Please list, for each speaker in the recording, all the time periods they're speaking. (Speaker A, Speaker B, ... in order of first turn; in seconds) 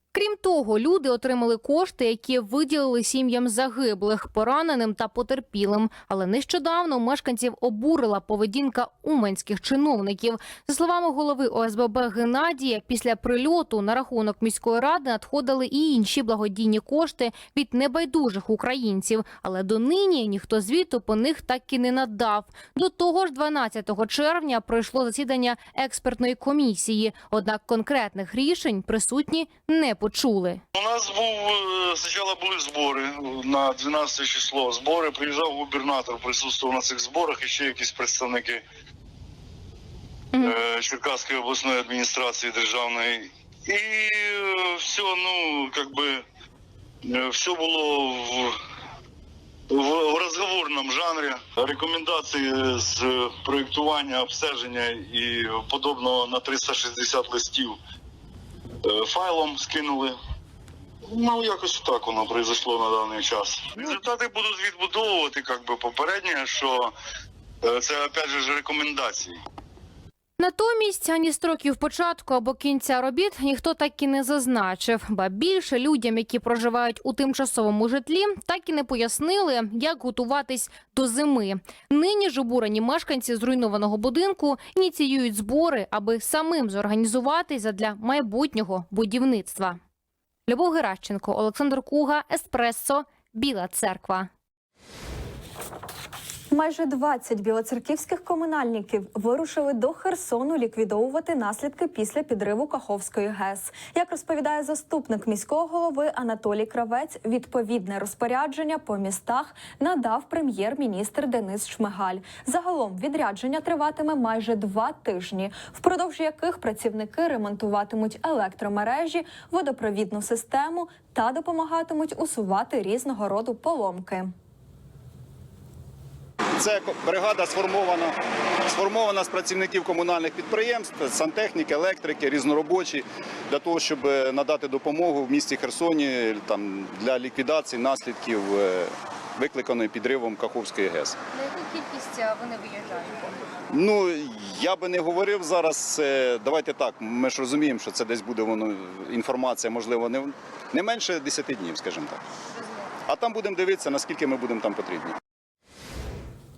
Speaker A: 0.1-30.6, 70.4-89.8, 90.5-94.3, 141.5-143.2
Speaker B: 30.8-38.6, 40.4-46.2, 47.0-48.5, 49.7-57.8, 58.9-60.1, 61.1-66.9, 67.6-69.3
Speaker C: 96.5-124.3
Speaker D: 126.5-141.2, 143.7-152.2, 153.1-155.2